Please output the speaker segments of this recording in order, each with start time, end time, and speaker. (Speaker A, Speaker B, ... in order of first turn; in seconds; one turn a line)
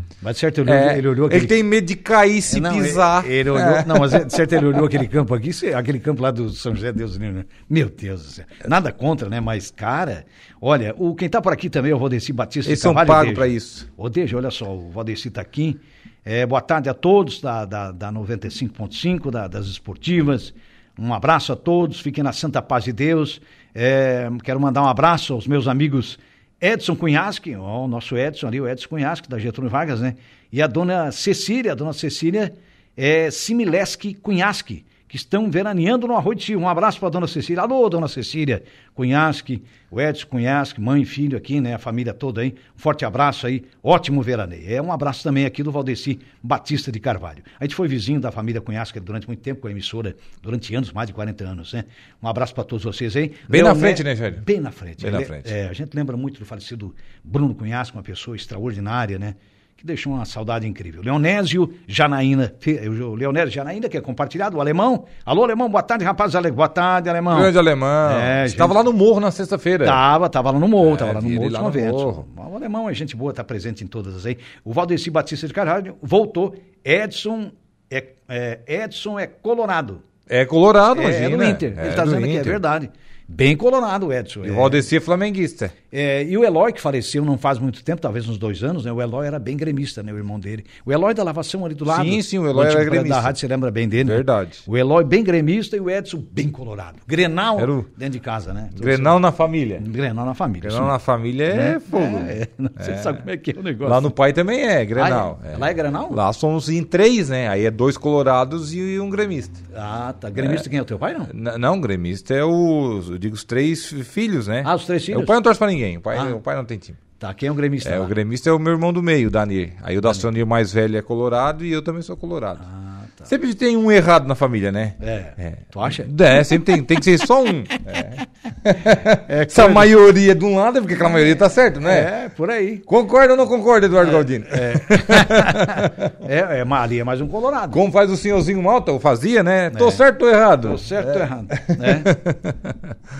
Speaker A: 0.2-1.5
Speaker B: 0.7-4.2
Speaker A: 2.5-67.5
Speaker B: 12.7-13.9
Speaker B: 53.5-54.4
Speaker B: 55.0-55.5
Speaker B: 67.3-70.0
Speaker A: 68.0-68.8
Speaker A: 69.8-80.0
Speaker B: 70.8-72.2
Speaker B: 80.3-82.6
Speaker A: 80.9-84.8
Speaker B: 84.4-85.7
Speaker A: 85.9-99.2
Speaker B: 91.9-93.3
Speaker B: 94.0-94.6
Speaker B: 97.6-97.8
Speaker B: 98.8-99.8
Speaker A: 99.8-100.9
Speaker B: 100.6-103.2
Speaker A: 101.5-104.1
Speaker B: 103.8-109.6
Speaker A: 105.0-106.2
Speaker A: 109.7-111.3
Speaker B: 110.4-110.6
Speaker B: 111.3-117.0
Speaker A: 114.6-115.3
Speaker A: 117.2-118.1
Speaker B: 117.8-122.6
Speaker A: 122.6-123.3
Speaker B: 123.3-132.1
Speaker A: 125.0-127.0
Speaker A: 129.1-129.9
Speaker A: 131.8-132.8
Speaker B: 132.9-136.1
Speaker A: 134.0-137.8
Speaker B: 137.7-142.9
Speaker A: 139.7-140.0
Speaker A: 140.6-142.1